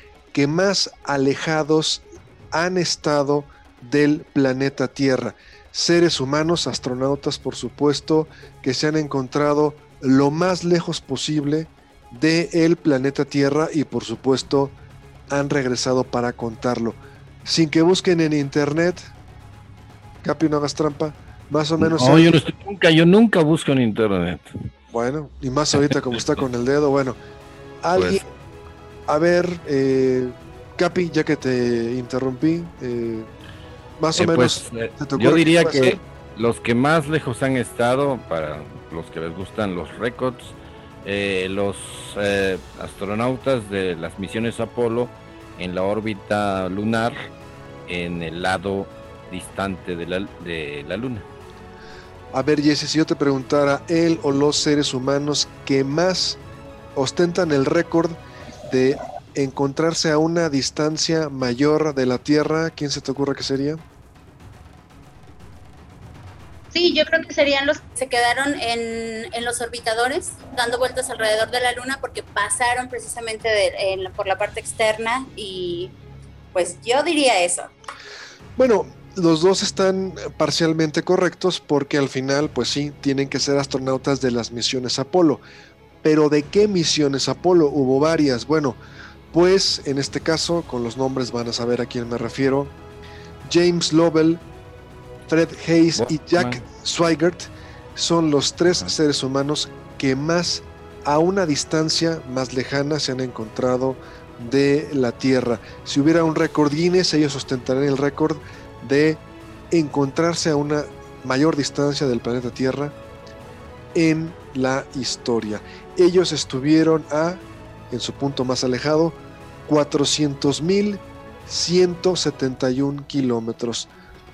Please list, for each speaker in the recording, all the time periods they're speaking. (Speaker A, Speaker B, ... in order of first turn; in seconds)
Speaker A: 0.3-14.7, 15.3-19.0, 20.2-22.4, 24.9-27.2, 27.8-28.2, 29.1-33.3, 34.0-36.0, 52.3-56.4, 57.0-63.8, 78.6-85.4, 86.0-88.8, 89.3-92.7, 93.4-94.4, 95.3-113.0, 113.9-123.9
Speaker B: 21.8-24.4, 25.9-26.2, 27.9-28.2, 34.1-47.3, 47.9-51.2, 96.0-96.6
Speaker C: 66.7-75.9, 76.5-77.7